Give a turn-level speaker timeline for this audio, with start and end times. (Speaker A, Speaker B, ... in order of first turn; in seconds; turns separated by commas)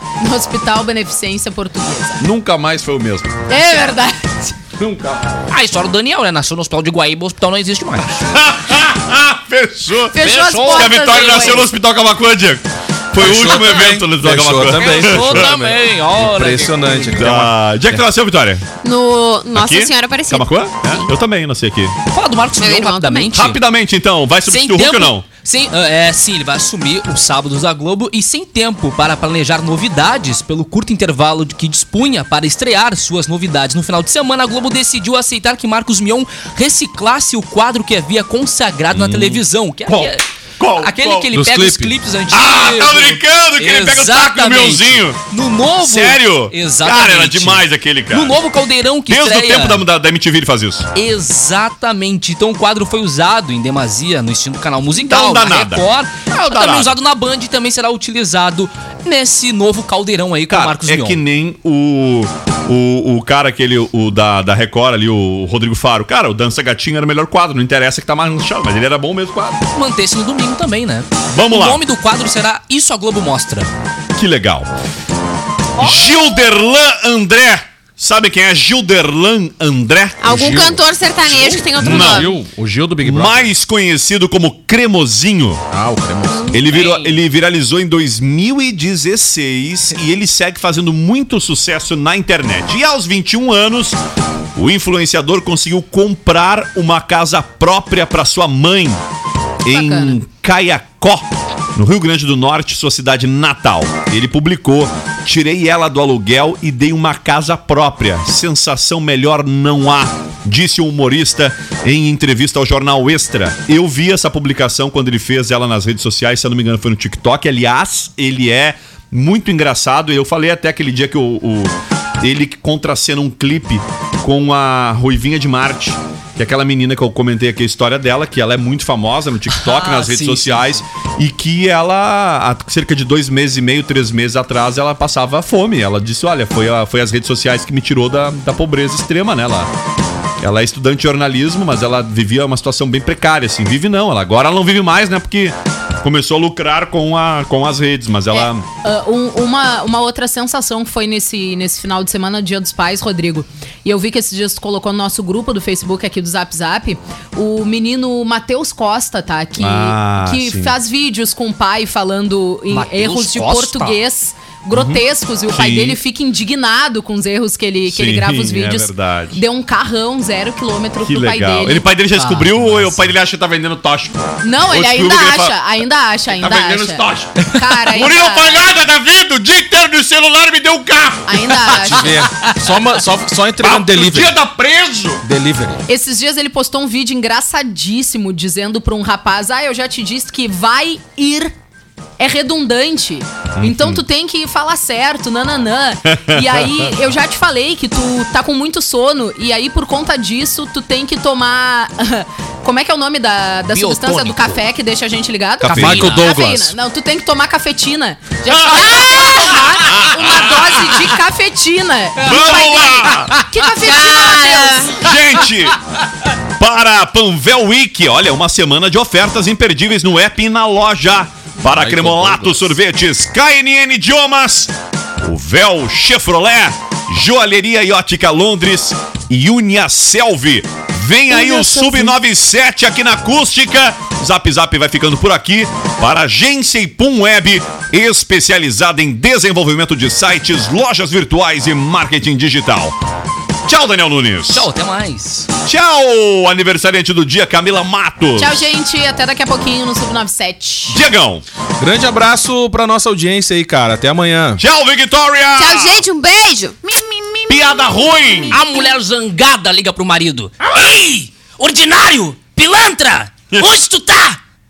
Speaker A: 0.2-2.2, Speaker B: 2.2-3.4, Speaker A: 3.5-4.5, Speaker B: 4.8-5.2, Speaker C: 5.5-8.4, Speaker B: 8.0-15.5, Speaker A: 10.1-11.6, Speaker C: 10.2-11.7, Speaker D: 13.2-18.0, Speaker C: 14.7-17.3, Speaker B: 17.1-18.6, Speaker E: 18.8-21.1, Speaker B: 19.5-21.9, Speaker C: 22.1-23.6, Speaker E: 22.6-23.4, Speaker B: 23.3-25.2, Speaker C: 24.5-40.2, Speaker B: 38.9-41.3, Speaker C: 40.8-49.8, Speaker D: 41.3-42.0, Speaker B: 42.3-45.2, Speaker B: 45.8-48.4, Speaker B: 49.1-50.9, Speaker C: 50.9-61.2, Speaker B: 55.0-56.9, Speaker B: 60.5-69.6, Speaker C: 69.7-73.7, Speaker B: 71.3-71.8, Speaker B: 74.2-74.7, Speaker B: 75.8-80.5, Speaker E: 80.2-82.3, Speaker D: 80.2-80.8, Speaker B: 81.2-82.3, Speaker D: 81.8-83.5, Speaker B: 83.0-85.6, Speaker D: 85.7-86.5, Speaker B: 86.5-94.0, Speaker C: 86.6-87.2, Speaker B: 94.5-99.0, Speaker B: 99.6-139.7, Speaker A: 99.7-100.2, Speaker C: 129.5-130.8, Speaker B: 140.4-148.6, Speaker A: 148.3-171.9, Speaker B: 159.6-160.7, Speaker C: 162.7-164.0, Speaker B: 164.7-166.0, Speaker B: 167.9-169.4, Speaker B: 171.0-175.6, Speaker C: 172.1-173.0, Speaker A: 174.4-178.6, Speaker B: 176.3-181.7, Speaker A: 181.3-182.2, Speaker D: 181.7-184.3, Speaker B: 183.6-185.2, Speaker D: 185.2-185.8, Speaker A: 185.9-191.5, Speaker A: 192.2-214.9, Speaker B: 193.6-194.0, Speaker B: 196.1-196.9, Speaker C: 203.7-204.6, Speaker B: 205.6-206.1, Speaker C: 205.6-206.3, Speaker D: 205.7-206.7, Speaker B: 208.5-210.9, Speaker E: 209.0-209.6, Speaker B: 212.2-213.3, Speaker C: 212.3-213.4, Speaker E: 213.8-215.0, Speaker B: 215.0-215.8, Speaker B: 216.6-242.9, Speaker C: 221.7-222.7, Speaker A: 231.3-232.2, Speaker B: 243.7-244.7, Speaker C: 244.4-245.5, Speaker B: 245.6-248.7, Speaker A: 248.4-251.0, Speaker B: 250.9-251.4, Speaker D: 251.8-254.6, Speaker B: 254.6-256.0, Speaker E: 255.6-256.8, Speaker C: 257.0-257.7, Speaker B: 257.5-258.6, Speaker C: 258.5-264.4